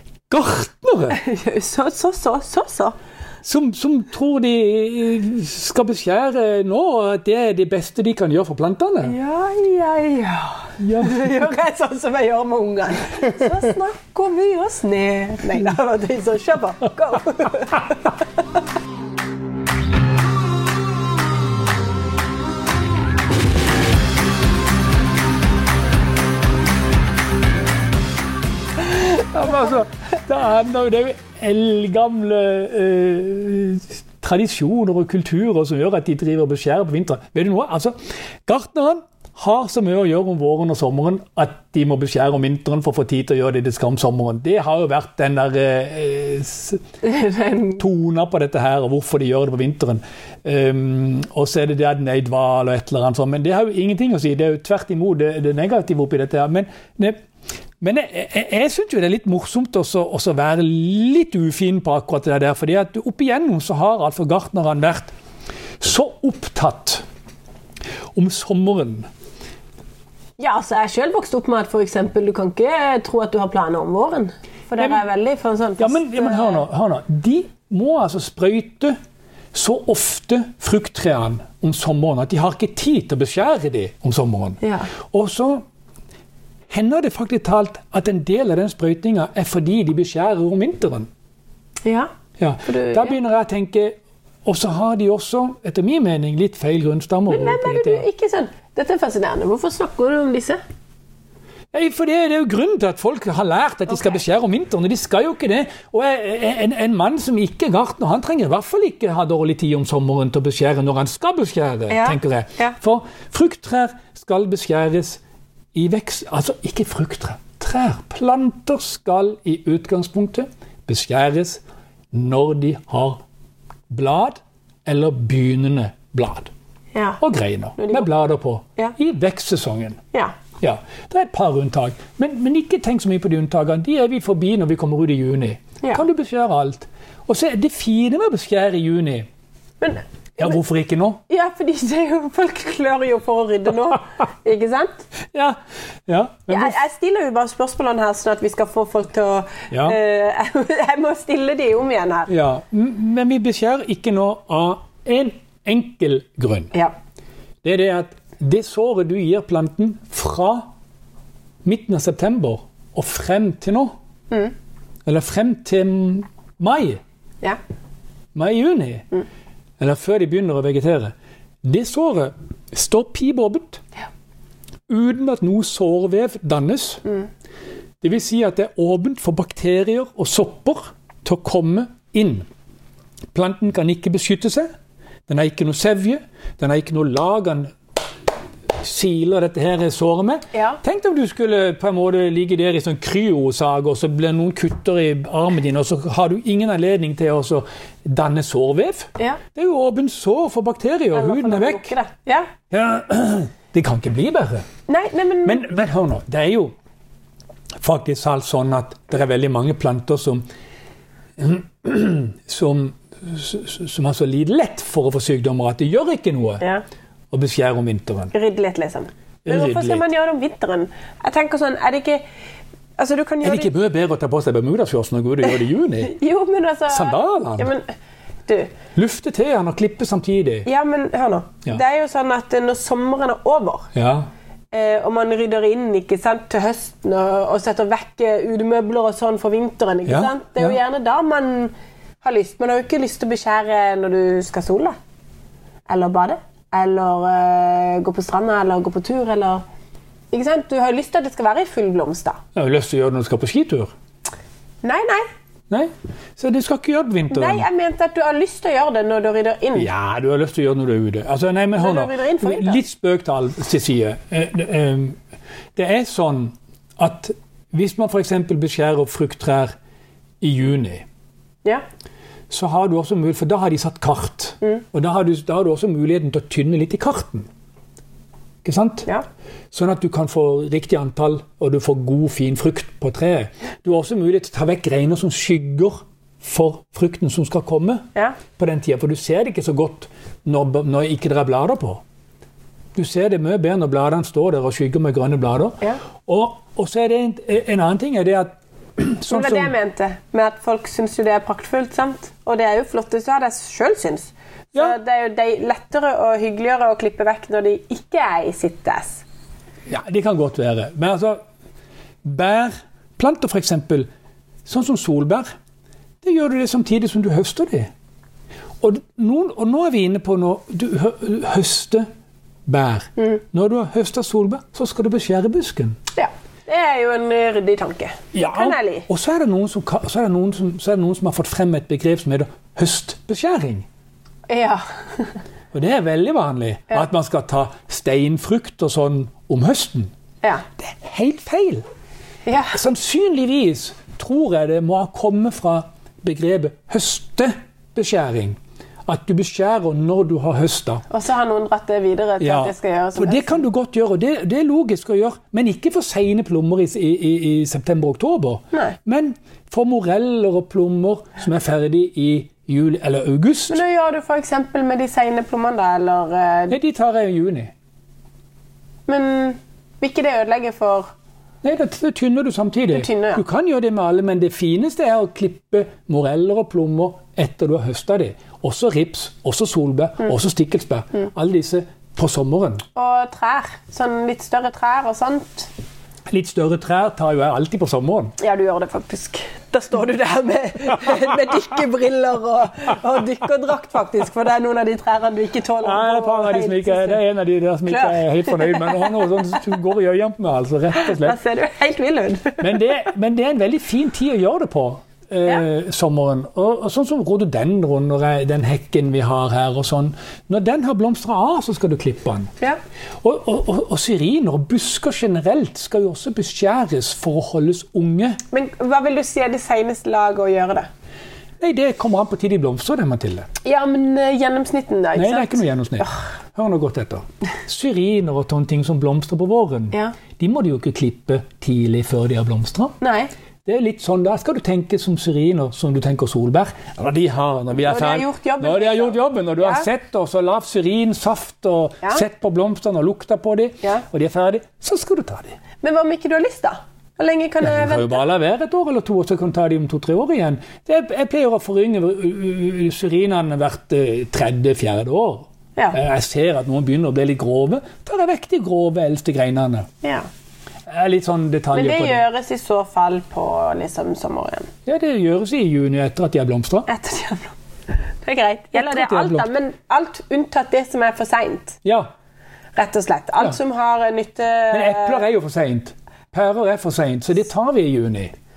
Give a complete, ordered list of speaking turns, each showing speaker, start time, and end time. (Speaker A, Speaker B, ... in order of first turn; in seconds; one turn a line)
Speaker A: 0.3-1.2
Speaker B: 1.1-3.0
Speaker A: 3.4-9.1
Speaker B: 9.0-18.2
Speaker A: 10.8-11.5
Speaker A: 28.8-46.8
Speaker B: 47.0-47.8
Speaker A: 47.8-57.2
Speaker A: 57.8-65.1
Speaker A: 65.8-67.0
Speaker A: 68.1-69.1
Speaker B: 70.4-76.6
Speaker A: 75.8-79.0
Speaker A: 79.5-85.6
Speaker B: 84.6-84.9
Speaker A: 86.7-91.1
Speaker B: 91.8-92.1
Speaker A: 92.4-98.0
Speaker B: 92.7-93.2
Speaker B: 97.3-100.6
Speaker A: 101.7-115.2
Speaker B: 111.9-112.8
Speaker A: 115.7-123.2
Speaker A: 123.9-126.5
Speaker B: 126.9-127.2
Speaker A: 127.2-130.0
Speaker B: 127.8-128.1
Speaker A: 130.6-139.3
Speaker B: 139.8-140.6
Speaker A: 140.4-141.2
Speaker B: 141.3-145.1
Speaker A: 145.3-146.8
Speaker B: 146.5-152.3
Speaker A: 149.7-150.0
Speaker A: 152.3-156.7
Speaker A: 157.6-160.7
Speaker A: 161.6-163.9
Speaker A: 165.1-167.0
Speaker A: 168.3-169.2
Speaker A: 169.8-173.8
Speaker A: 174.9-177.0
Speaker A: 178.0-182.5
Speaker A: 183.3-184.7
Speaker A: 185.3-187.7
Speaker A: 188.7-201.9
Speaker B: 190.5-190.8
Speaker B: 201.1-202.5
Speaker A: 202.7-204.6
Speaker B: 204.9-205.6
Speaker A: 205.4-206.7
Speaker A: 207.8-210.4
Speaker A: 211.4-216.6
Speaker A: 217.3-218.3
Speaker B: 218.3-222.2
Speaker A: 219.4-220.1
Speaker B: 223.0-223.7
Speaker A: 223.4-226.1
Speaker B: 226.0-227.9
Speaker A: 226.9-227.7
Speaker B: 228.5-228.7
Speaker A: 228.9-230.7
Speaker B: 230.7-233.9
Speaker A: 233.9-234.3
Speaker B: 234.7-244.9
Speaker A: 240.1-240.8
Speaker B: 245.9-249.6
Speaker B: 250.3-252.4
Speaker A: 252.5-253.9
Speaker B: 254.8-255.2
Speaker A: 255.7-257.6
Speaker B: 257.3-259.9
Speaker A: 259.7-265.2
Speaker B: 261.8-262.8
Speaker A: 265.8-269.7
Speaker A: 270.4-271.0
Speaker A: 272.5-277.5
Speaker A: 278.6-279.1
Speaker A: 279.7-288.0
Speaker A: 288.5-292.0
Speaker A: 292.9-299.7
Speaker B: 299.3-309.2
Speaker A: 309.9-311.4
Speaker A: 312.2-314.1
Speaker A: 314.6-315.5
Speaker A: 316.2-317.9
Speaker A: 318.8-322.1
Speaker A: 322.7-326.0
Speaker B: 326.1-329.1
Speaker A: 328.3-333.9
Speaker B: 334.5-335.4
Speaker A: 335.7-340.1
Speaker A: 340.8-341.8
Speaker B: 342.4-342.8
Speaker A: 342.7-351.0
Speaker B: 351.1-353.6
Speaker A: 352.4-363.8
Speaker B: 358.7-359.0
Speaker B: 363.7-366.8
Speaker A: 366.7-367.7
Speaker B: 369.1-371.1
Speaker A: 371.6-382.8
Speaker B: 372.9-373.4
Speaker B: 382.9-385.7
Speaker A: 386.3-388.3
Speaker B: 388.4-397.2
Speaker A: 395.8-401.4
Speaker B: 397.9-399.6
Speaker B: 401.0-402.8
Speaker A: 402.6-412.5
Speaker A: 413.2-418.4
Speaker B: 418.5-420.9
Speaker A: 421.6-423.5
Speaker B: 423.6-426.2
Speaker A: 425.1-432.9
Speaker B: 433.0-433.3
Speaker A: 433.6-445.6
Speaker B: 437.8-439.9
Speaker B: 445.8-448.2
Speaker A: 447.6-459.9
Speaker B: 460.0-460.3
Speaker A: 460.9-462.2
Speaker B: 461.7-464.7
Speaker A: 464.9-466.9
Speaker B: 466.9-467.6
Speaker B: 468.2-471.8
Speaker A: 468.7-469.5
Speaker A: 471.8-472.1
Speaker B: 472.8-475.2
Speaker A: 474.7-478.3